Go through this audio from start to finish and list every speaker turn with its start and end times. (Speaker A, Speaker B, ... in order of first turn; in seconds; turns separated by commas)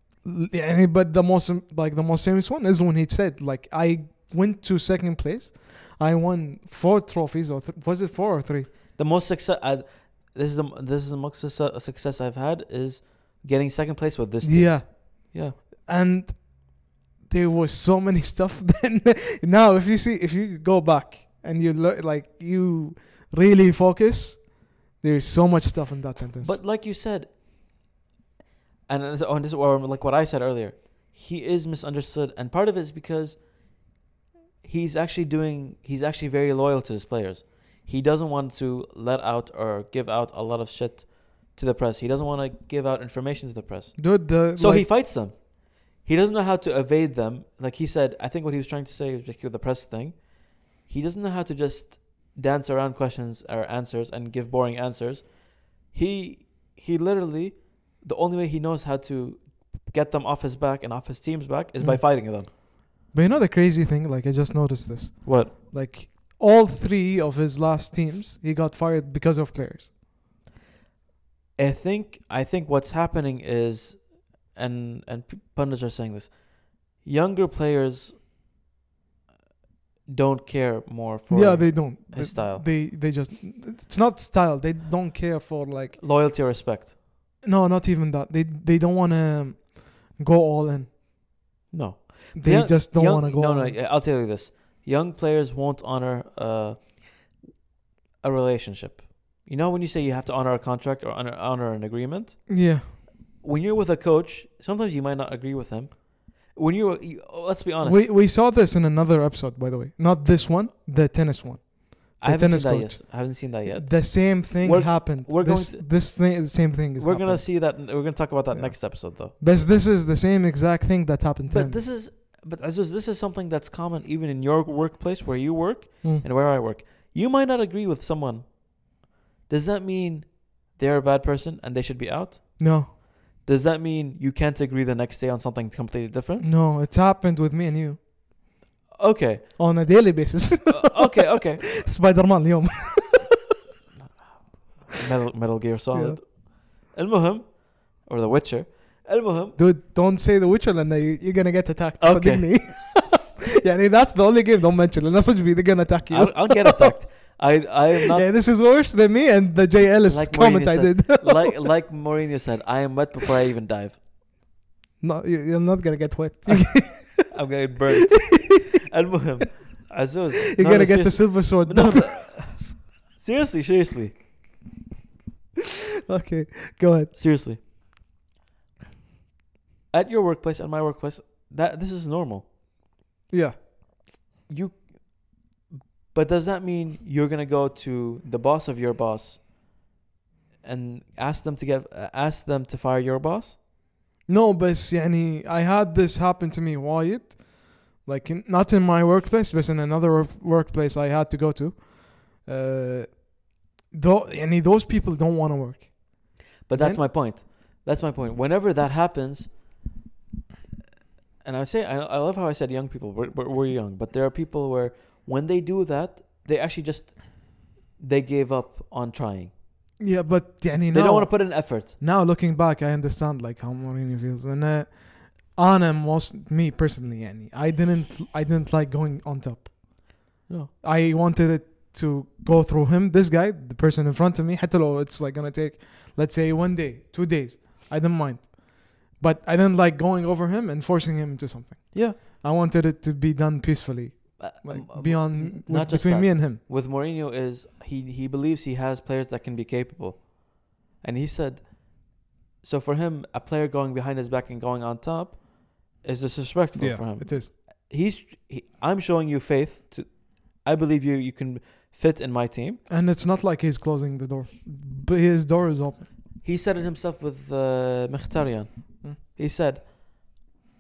Speaker A: 0.2-8.7, Speaker B: 9.0-15.6, Speaker A: 14.4-26.6, Speaker B: 26.4-27.4, Speaker B: 28.9-33.5, Speaker B: 34.6-62.5, Speaker A: 44.0-44.9, Speaker A: 61.8-70.0, Speaker B: 65.2-65.5, Speaker B: 71.6-78.2, Speaker B: 80.1-82.7, Speaker A: 81.3-86.0, Speaker B: 86.0-87.0, Speaker A: 87.4-90.9, Speaker B: 91.7-97.4, Speaker A: 92.3-93.8, Speaker B: 98.2-108.1, Speaker A: 102.5-102.9, Speaker A: 107.8-121.8, Speaker B: 112.2-116.2, Speaker B: 117.0-119.3, Speaker B: 121.5-136.5, Speaker A: 132.6-132.9, Speaker A: 136.4-138.3, Speaker B: 138.9-139.7, Speaker A: 139.6-143.3, Speaker B: 140.7-141.7, Speaker B: 144.3-149.6, Speaker A: 145.9-146.2, Speaker A: 149.6-157.0, Speaker B: 152.0-152.9, Speaker B: 156.1-158.3, Speaker A: 158.1-161.6, Speaker B: 160.1-164.0, Speaker A: 165.0-167.3, Speaker B: 166.5-174.3, Speaker A: 170.6-172.7, Speaker A: 176.1-177.2, Speaker B: 177.1-177.6, Speaker B: 179.9-182.5, Speaker A: 183.3-183.6, Speaker B: 184.5-189.5, Speaker B: 190.6-193.6, Speaker A: 194.3-207.0, Speaker B: 206.7-209.6, Speaker B: 211.4-219.6, Speaker A: 220.0-246.6, Speaker B: 220.9-221.9, Speaker B: 230.5-230.7, Speaker B: 241.9-242.2, Speaker B: 244.4-262.8, Speaker A: 256.8-257.5, Speaker A: 262.9-266.1, Speaker B: 266.4-270.4